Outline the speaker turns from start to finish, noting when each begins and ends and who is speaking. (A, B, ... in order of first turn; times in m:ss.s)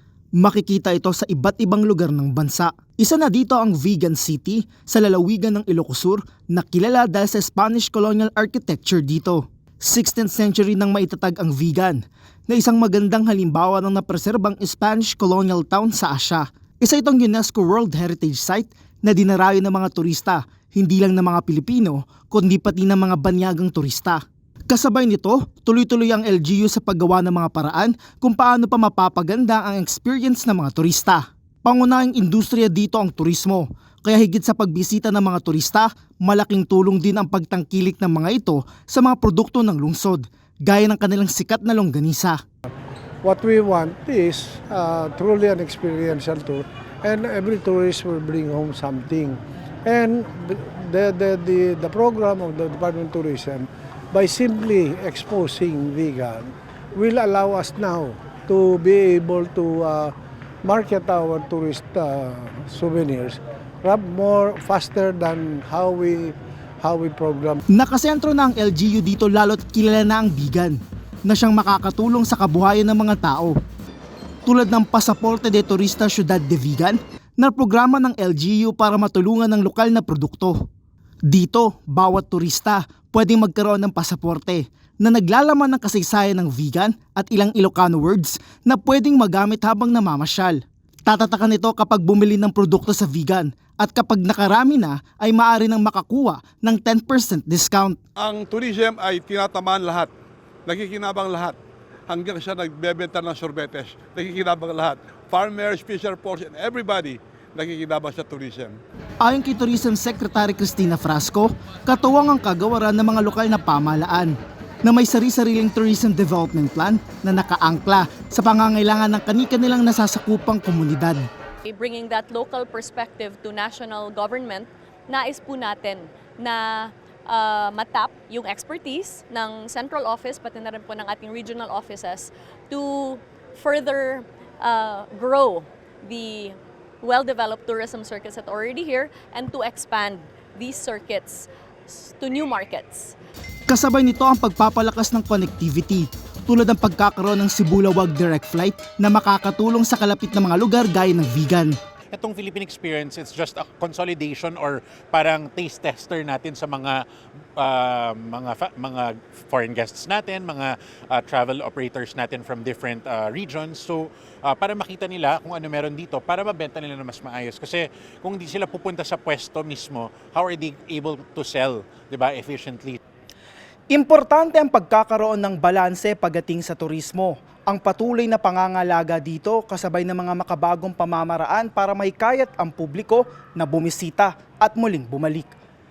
0:00.4-0:42.4 A
0:43.2-1:07.6 B
1:07.7-1:13.5 A
1:14.4-1:20.6 A
1:21.3-1:38.0 A
1:38.2-1:40.1 C
1:40.6-1:41.6 C
1:42.1-1:48.8 C
1:49.2-2:01.2 A
2:01.6-2:23.1 D
2:23.7-2:31.7 A
2:32.1-2:37.0 E
2:37.6-2:53.0 E
2:53.9-3:05.5 A